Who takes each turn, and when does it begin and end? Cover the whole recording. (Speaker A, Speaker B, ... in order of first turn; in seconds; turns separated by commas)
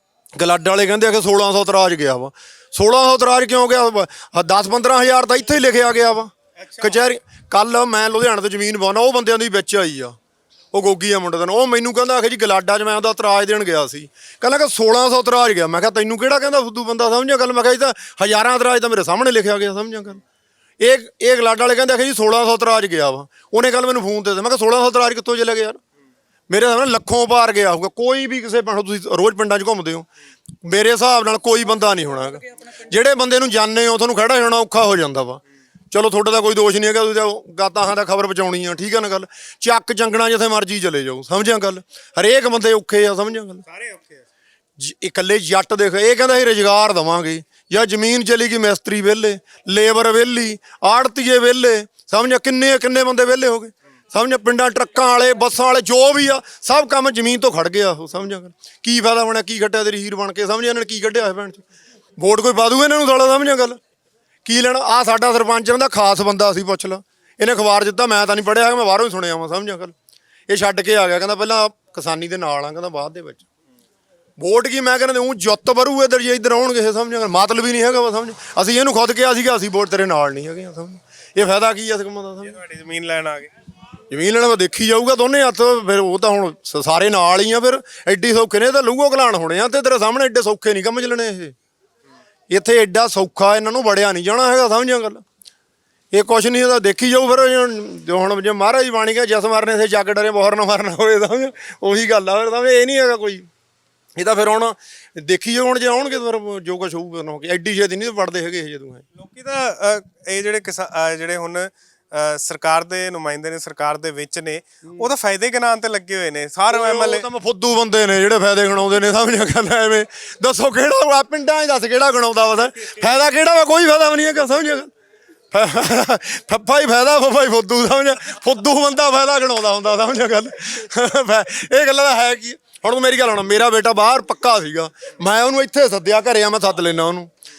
Speaker A: 0.4-10.1, Speaker B: 6.6-7.0, Speaker A: 10.7-20.2, Speaker A: 20.8-25.8, Speaker A: 26.5-30.1, Speaker A: 30.6-35.4, Speaker A: 35.9-43.6, Speaker B: 43.6-44.2, Speaker A: 44.8-61.6, Speaker A: 62.2-63.8, Speaker A: 64.5-69.9, Speaker A: 70.5-73.4, Speaker A: 74.4-82.6, Speaker B: 82.4-83.5, Speaker A: 84.1-91.5, Speaker A: 92.5-95.2, Speaker A: 96.1-103.5, Speaker A: 104.2-109.0, Speaker B: 109.2-117.2, Speaker A: 116.7-124.9, Speaker A: 125.5-137.3